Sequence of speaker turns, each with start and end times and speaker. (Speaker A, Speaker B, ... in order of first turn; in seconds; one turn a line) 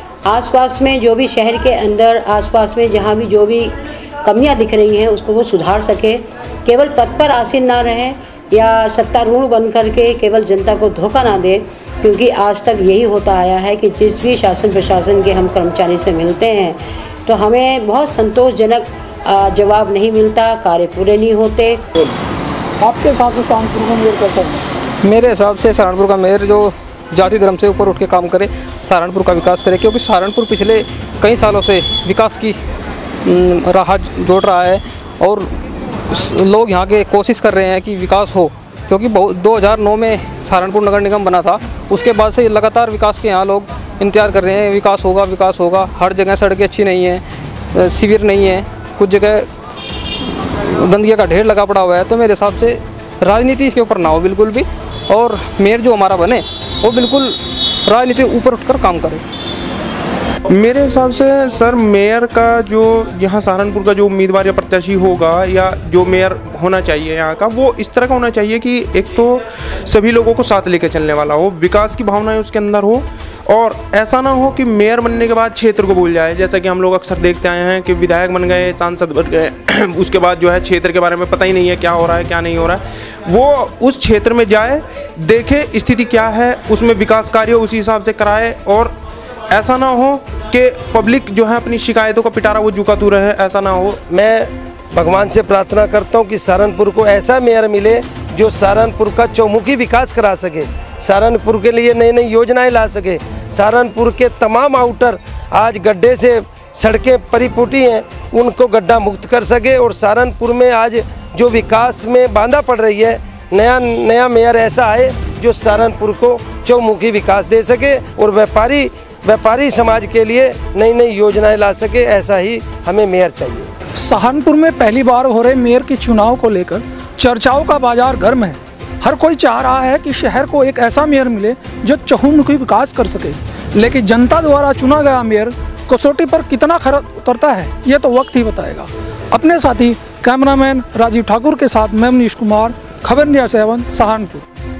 Speaker A: 0.2-21.8
Speaker B: 22.8-24.6
Speaker C: 25.0-32.6
Speaker C: 33.2-35.5
Speaker C: 36.1-49.5
Speaker C: 50.5-59.2
Speaker D: 60.5-89.0
Speaker D: 89.5-94.0
Speaker E: 94.0-123.7
Speaker B: 124.0-144.4